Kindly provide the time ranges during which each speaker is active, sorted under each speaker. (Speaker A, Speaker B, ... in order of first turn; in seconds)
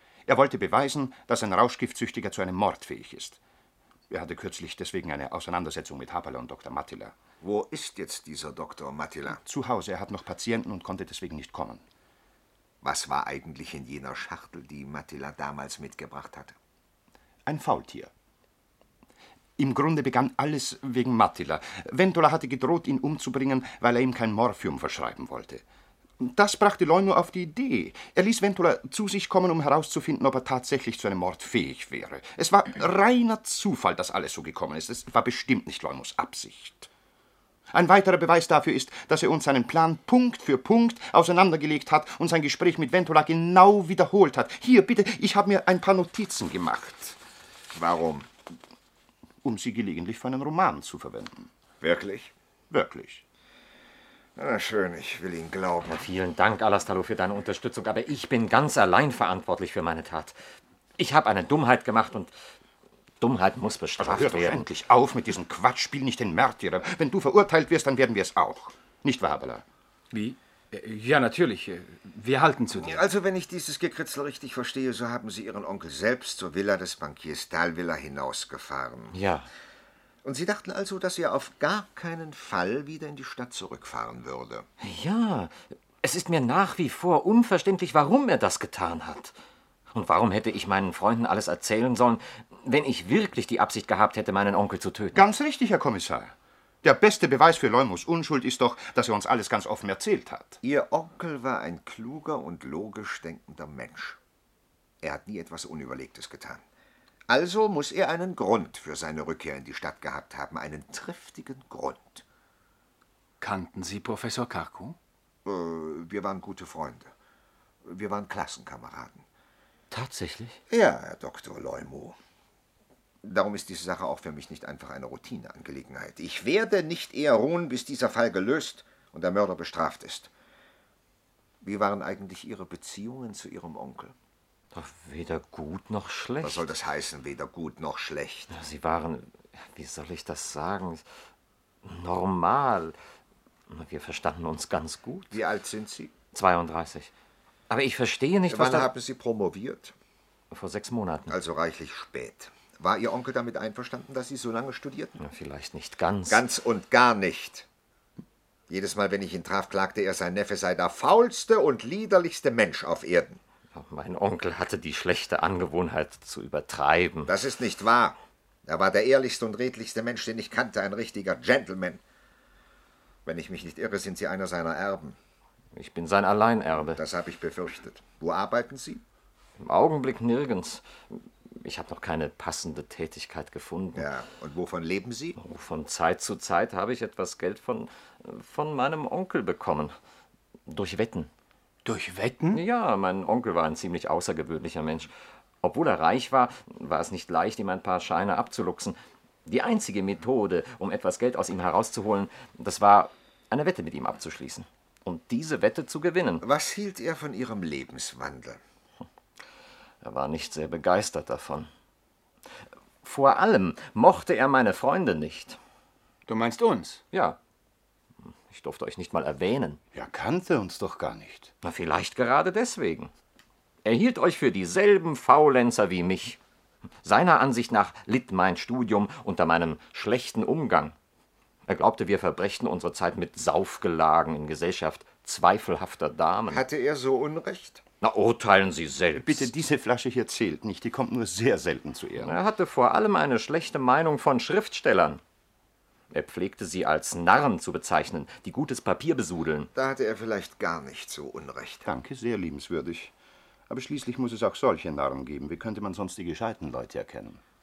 Speaker A: 0.2-3.4, 4.1-7.1, 9.3-11.8, 17.4-18.1, 19.6-25.6, 26.2-36.9, 37.7-47.2, 49.4-51.5, 52.7-53.2, 64.0-69.6, 95.1-100.6, 219.9-221.5, 239.1-242.4, 251.8-253.1, 253.7-257.4
Speaker B: 7.4-9.4, 12.8-16.6, 47.7-48.3, 51.8-52.3, 54.4-56.0, 72.8-79.2, 80.2-84.7, 100.6-104.2, 105.0-106.6, 107.3-112.2, 115.4-117.1, 117.8-119.2, 120.7-122.2, 123.2-130.3, 131.6-134.1, 136.4-138.5, 145.3-146.1, 148.5-149.9, 151.3-155.2, 156.3-157.7, 158.7-163.4, 167.3-172.0, 173.2-175.2, 176.9-179.0, 183.9-185.4, 206.4-208.6, 236.5-237.8, 249.7-251.8
Speaker C: 55.9-60.4, 61.0-62.3, 63.2-64.7, 79.1-79.5, 84.8-89.3, 89.9-95.2, 119.9-120.6, 134.7-136.7, 138.5-141.1, 141.8-142.9, 143.7-145.4, 146.3-147.1, 147.7-148.9, 150.5-151.3, 155.2-156.4, 163.7-167.3, 175.7-177.0, 179.6-184.1, 185.4-189.9, 190.7-191.3, 192.5-206.4, 210.0-211.7, 213.0-215.6, 217.1-217.4, 218.2-219.8, 221.6-223.1, 223.8-226.4, 227.0-230.9, 231.7-236.6, 238.0-239.5, 242.2-245.2, 246.1-249.7
Speaker D: 70.1-73.0, 113.4-115.0, 191.8-192.6, 216.3-217.0